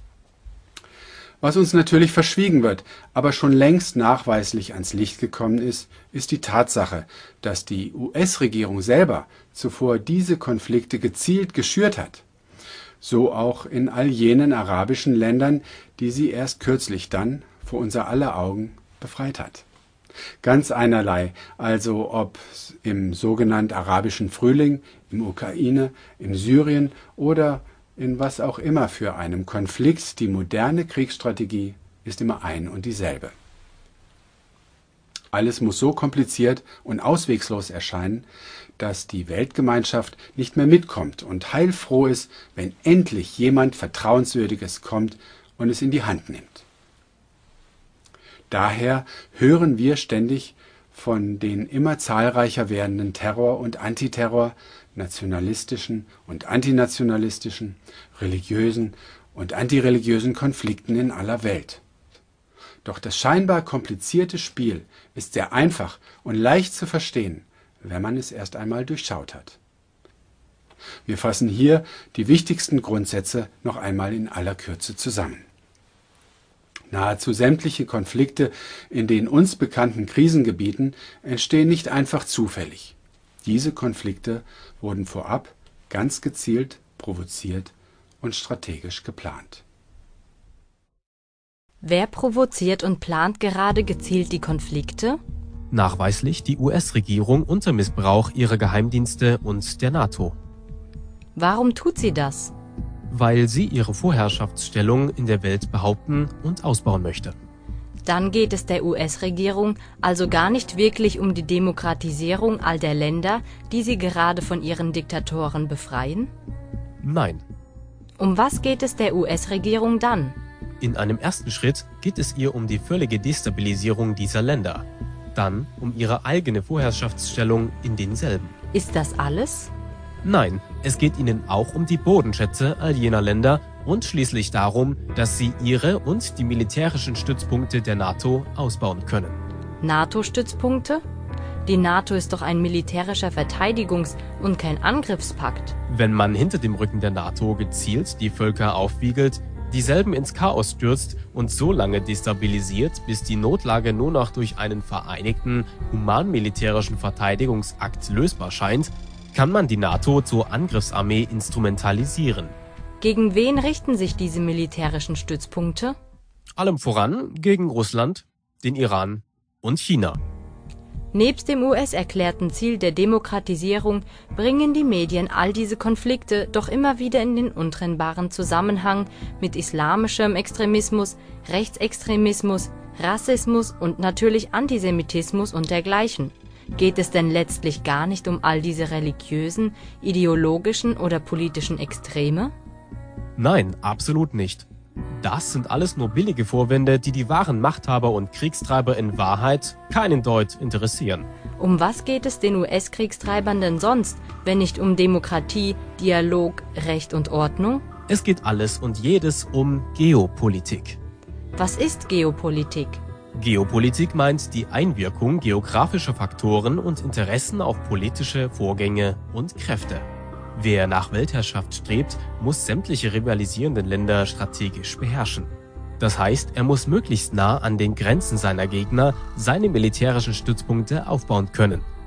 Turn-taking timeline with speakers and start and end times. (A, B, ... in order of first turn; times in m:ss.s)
0:01.4-0:12.2 A
0:13.0-0:19.6 A
0:20.4-0:33.3 A
0:35.3-0:38.2 A
0:38.8-0:46.6 A
0:48.5-1:01.8 A
1:02.8-1:09.6 A
1:11.0-1:15.4 A
1:16.9-1:29.6 A
1:31.8-1:35.2 B
1:35.7-1:40.4 C
1:41.3-1:42.5 B
1:43.1-1:47.4 C
1:48.0-1:56.3 B
1:57.0-1:57.4 C
1:58.2-2:00.4 B
2:00.8-2:08.5 C
2:08.7-2:09.7 B
2:10.2-2:19.4 C
2:19.8-2:21.0 B
2:21.6-2:25.8 B
2:25.9-2:42.5 C
2:43.0-2:45.9 B
2:46.6-2:50.2 C
2:51.1-3:12.5 B
3:13.4-3:14.7 C
3:15.2-3:21.3 C
3:21.6-3:27.8 B
3:28.1-3:31.0 C
3:31.6-3:33.0 B
3:33.3-3:51.8 C